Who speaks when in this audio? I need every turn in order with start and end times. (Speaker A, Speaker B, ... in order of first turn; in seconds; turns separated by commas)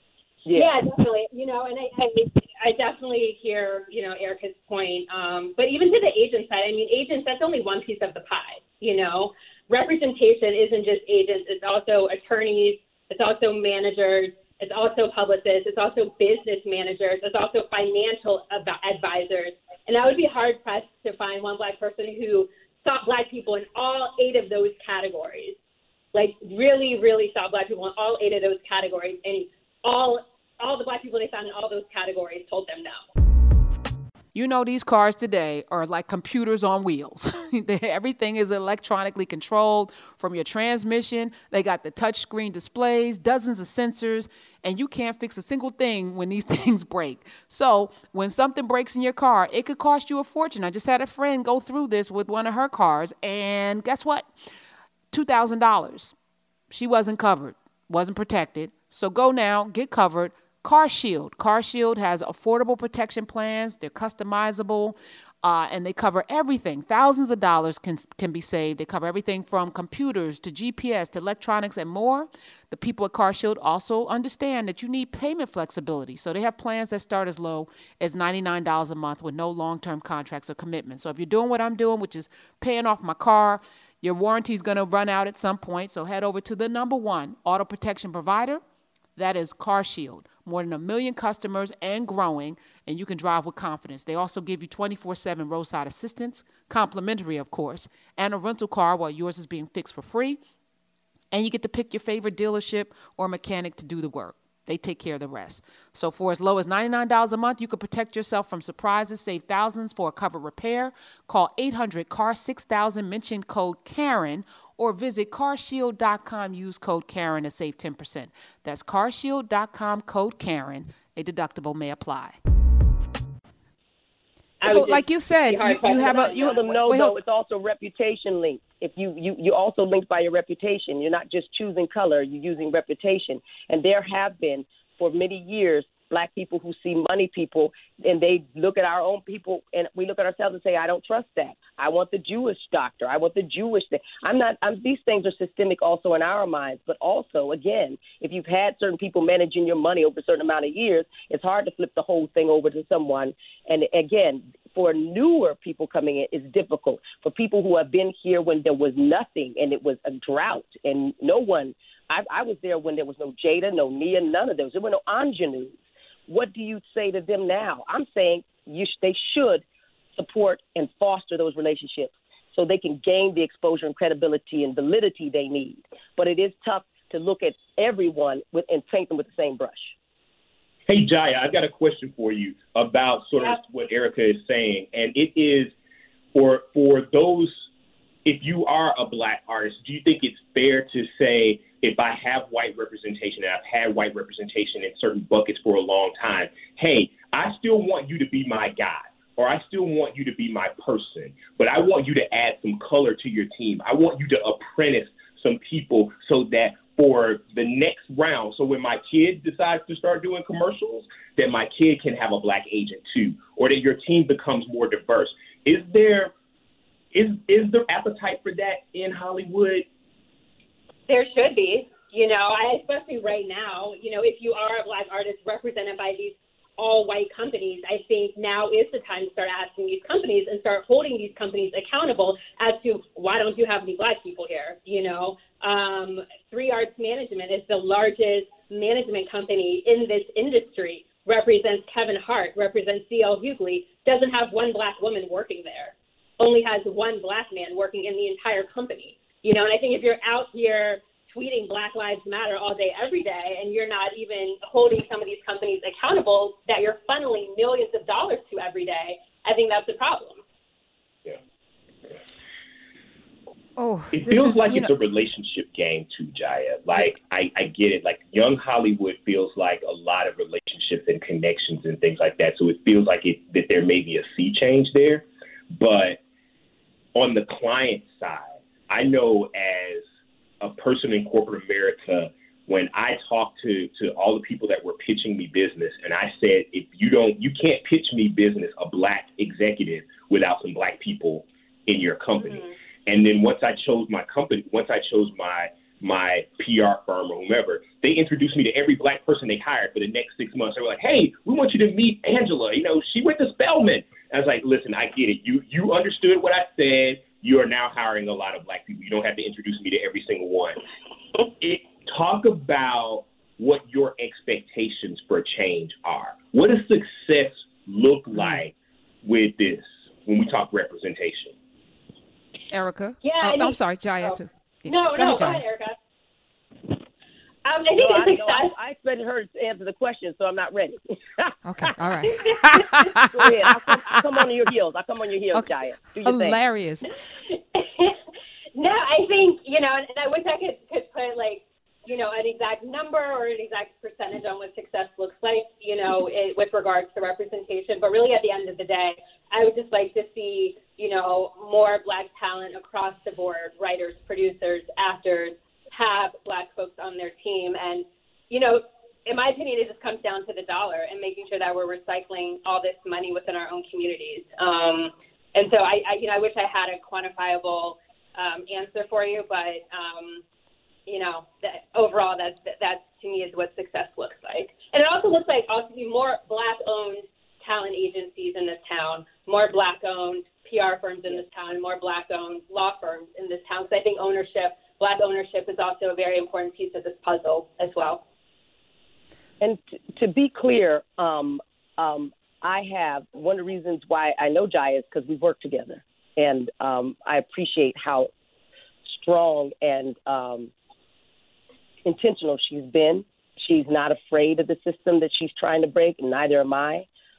Speaker A: 0.4-0.7, Speaker B: 0.5-25.6, Speaker B: 26.1-33.0, Speaker C: 34.3-54.3, Speaker C: 55.1-56.1, Speaker C: 56.7-88.6, Speaker C: 89.2-100.4, Speaker C: 101.3-122.4, Speaker B: 124.6-126.6, Speaker C: 124.6-127.1, Speaker A: 126.2-169.6, Speaker A: 170.2-179.9, Speaker D: 180.9-185.7, Speaker D: 186.3-187.6, Speaker D: 188.2-216.3, Speaker D: 217.1-219.8, Speaker B: 221.1-260.4, Speaker C: 263.8-264.9, Speaker D: 264.1-276.2, Speaker D: 277.1-280.0, Speaker D: 280.6-310.8, Speaker D: 311.6-321.5, Speaker C: 318.3-318.6, Speaker C: 322.7-325.6, Speaker B: 323.2-325.9, Speaker B: 327.6-328.7, Speaker A: 327.9-331.9, Speaker C: 331.6-334.1, Speaker B: 332.3-333.1, Speaker A: 333.2-336.6, Speaker C: 336.2-337.1, Speaker B: 337.5-338.2, Speaker B: 338.7-370.4, Speaker B: 371.1-388.2, Speaker A: 389.6-398.3, Speaker A: 399.1-400.7, Speaker A: 402.0-407.1